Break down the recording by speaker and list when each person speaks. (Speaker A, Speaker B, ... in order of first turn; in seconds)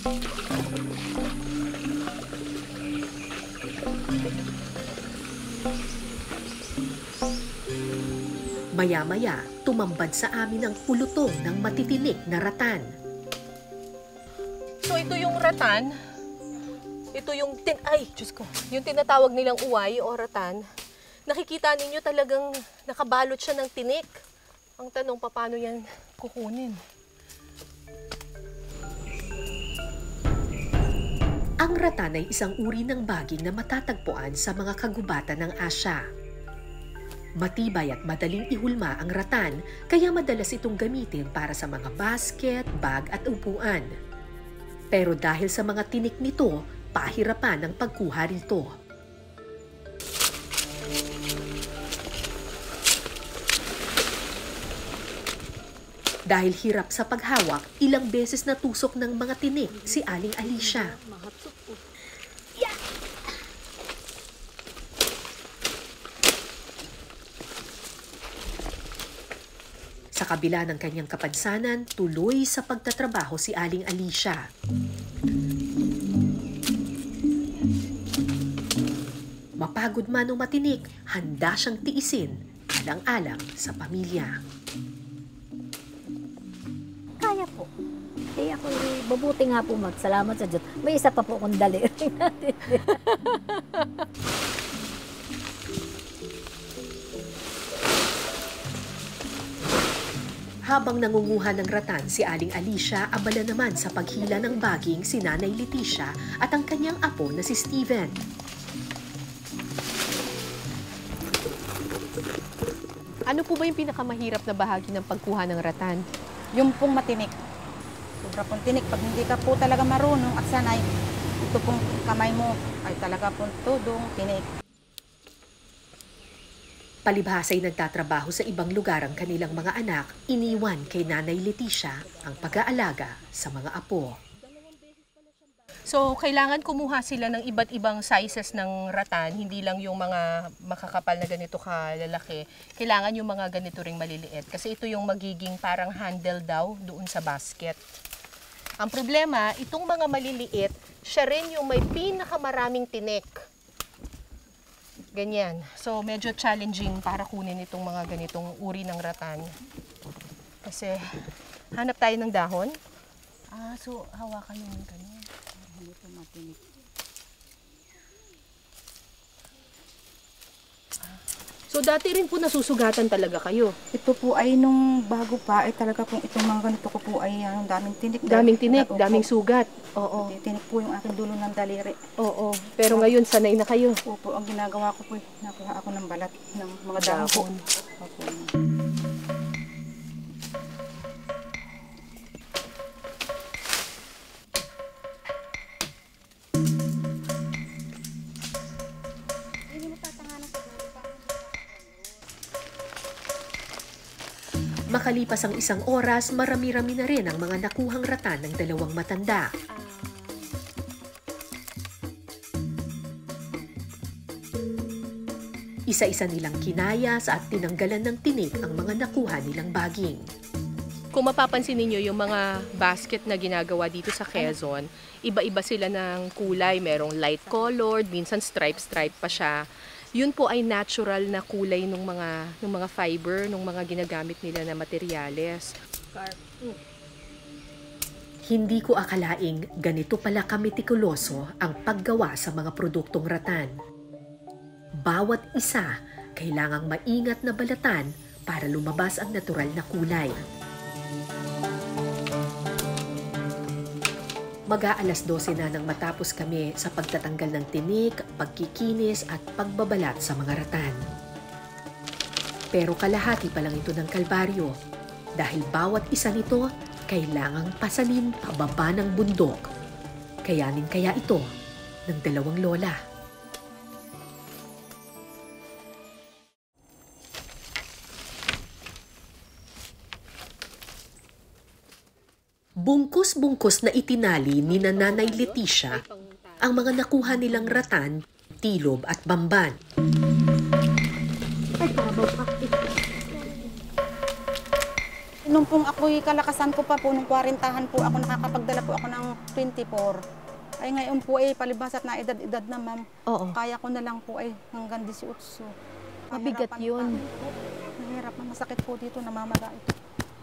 Speaker A: 8.8-12.9, 31.6-36.1, 37.4-43.9, 44.9-48.7, 56.3-60.9, 70.2-74.5, 79.6-84.4, 100.7-108.2, 127.1-134.2, 204.9-209.5, 215.9-220.2, 238.5-243.7, 245.0-250.4, 254.7-261.0, 262.7-264.8, 265.4-269.7, 270.4-271.5, 272.1-273.0, 282.8-286.0, 286.6-289.8
Speaker B: 14.8-15.9, 17.1-20.6, 21.3-24.1, 24.8-26.8, 93.1-94.0, 113.3-116.0, 135.9-147.8, 148.8-153.4, 155.2-159.6, 160.6-161.1, 161.8-162.8, 163.5-165.3, 171.7-173.7, 178.3-180.3, 182.2-184.0, 187.0-187.5, 209.8-210.4, 221.1-229.6, 230.2-235.7, 284.7-286.9, 291.8-292.8, 293.3-293.7, 303.3-303.6, 306.3-307.2
Speaker C: 59.9-61.8, 87.2-87.7, 88.4-93.0, 236.1-236.4
Speaker D: 116.6-117.3, 118.2-120.8, 121.4-124.5, 165.6-166.6, 173.9-179.3, 180.2-182.0, 184.1-188.5, 199.7-200.9, 295.5-300.2, 300.8-305.7, 306.3-309.9